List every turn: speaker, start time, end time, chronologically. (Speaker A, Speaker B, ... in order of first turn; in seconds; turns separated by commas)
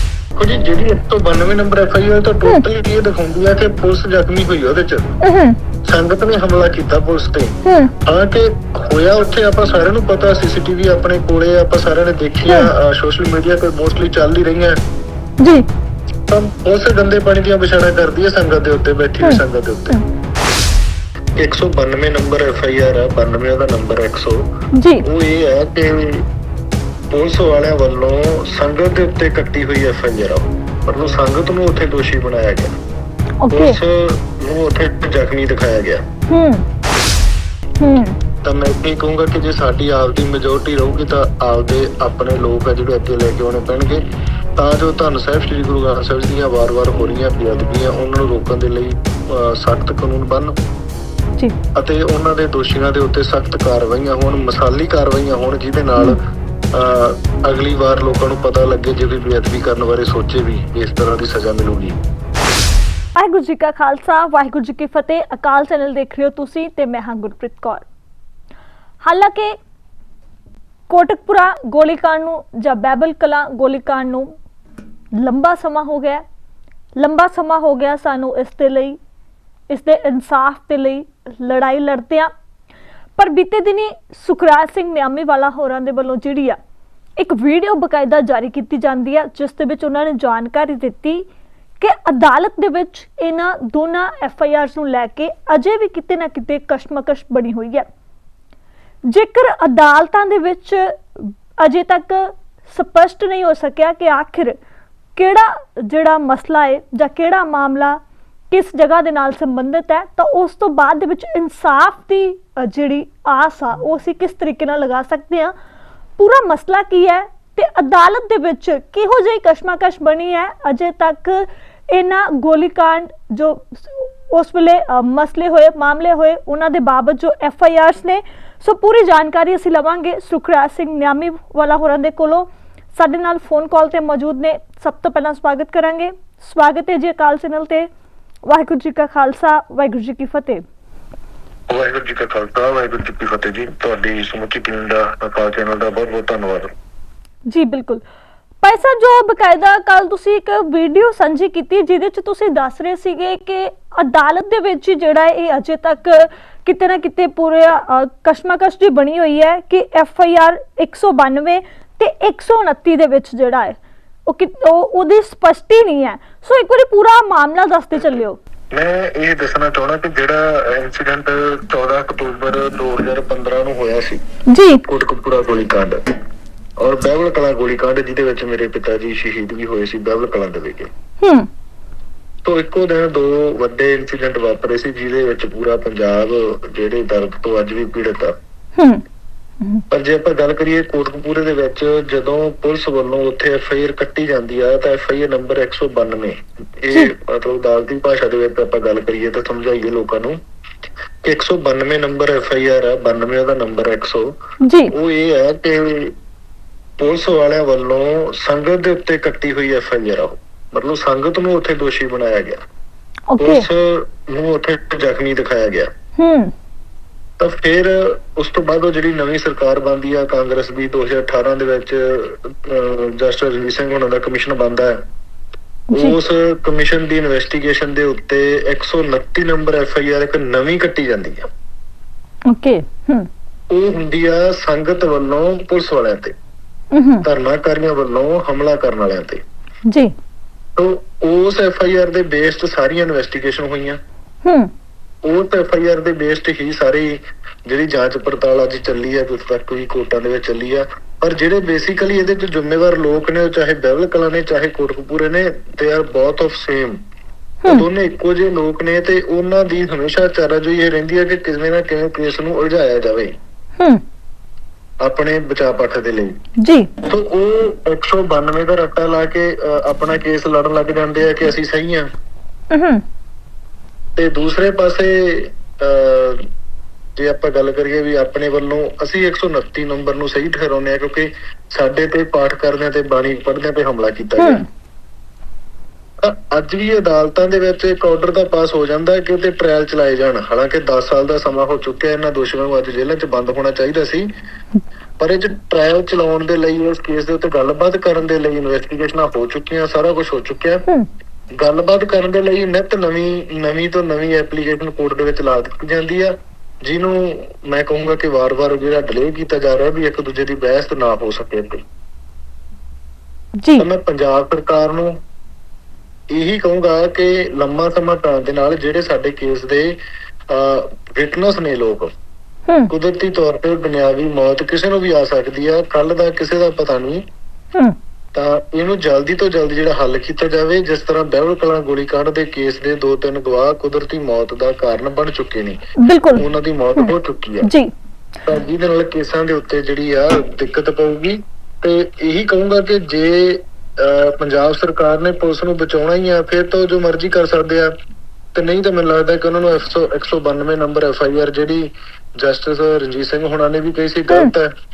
Speaker A: 0.4-5.0, Speaker B: 5.2-5.6, Speaker A: 5.8-14.8, Speaker B: 7.6-7.9, Speaker B: 15.4-15.7, Speaker A: 16.3-20.0, Speaker B: 19.2-20.0, Speaker A: 21.4-24.4, Speaker B: 24.7-25.1, Speaker A: 25.0-26.2, Speaker A: 27.1-32.7, Speaker B: 33.4-33.8, Speaker A: 33.5-36.0, Speaker B: 36.3-36.6, Speaker B: 37.8-38.2, Speaker A: 38.4-44.0, Speaker A: 44.6-50.5, Speaker A: 51.8-56.2, Speaker A: 56.7-62.0, Speaker B: 63.2-67.8, Speaker B: 69.0-69.5, Speaker B: 70.9-74.3, Speaker B: 75.2-76.2, Speaker B: 77.0-79.0, Speaker B: 79.7-82.3, Speaker B: 83.2-86.6, Speaker B: 87.2-91.3, Speaker B: 91.8-97.9, Speaker B: 99.1-104.6, Speaker B: 105.2-115.5, Speaker B: 116.2-137.9, Speaker B: 138.5-140.6, Speaker A: 141.7-146.7, Speaker B: 147.5-148.0, Speaker B: 148.6-168.4, Speaker A: 168.7-174.2, Speaker B: 174.5-174.8, Speaker A: 174.8-176.1, Speaker A: 176.8-180.9, Speaker B: 181.2-181.5, Speaker A: 182.4-188.3, Speaker B: 188.8-189.0, Speaker A: 189.9-200.4, Speaker A: 201.2-204.3, Speaker B: 204.6-204.9, Speaker A: 204.9-206.1, Speaker A: 207.0-212.6, Speaker B: 213.3-213.7, Speaker A: 213.4-215.9, Speaker B: 216.2-216.5, Speaker A: 217.4-225.0, Speaker B: 225.9-226.2, Speaker A: 225.9-231.4, Speaker B: 232.5-233.3, Speaker A: 233.7-236.3, Speaker B: 236.9-237.3, Speaker A: 237.2-239.4, Speaker A: 240.8-244.0, Speaker B: 244.4-244.7, Speaker A: 245.2-257.0, Speaker A: 257.6-263.3, Speaker A: 265.0-266.3, Speaker B: 266.6-266.9, Speaker A: 267.1-272.1, Speaker B: 272.7-273.0, Speaker A: 274.2-276.5, Speaker A: 277.2-284.6, Speaker B: 284.4-284.6, Speaker A: 286.2-294.3, Speaker A: 295.2-300.8, Speaker A: 301.6-311.8, Speaker B: 313.6-313.9, Speaker A: 313.8-315.1, Speaker A: 316.3-320.0, Speaker A: 320.5-322.1, Speaker A: 322.9-327.2, Speaker A: 328.3-335.8, Speaker B: 336.0-336.4, Speaker A: 336.4-337.7, Speaker B: 337.0-337.9, Speaker A: 338.5-347.9, Speaker A: 348.5-354.7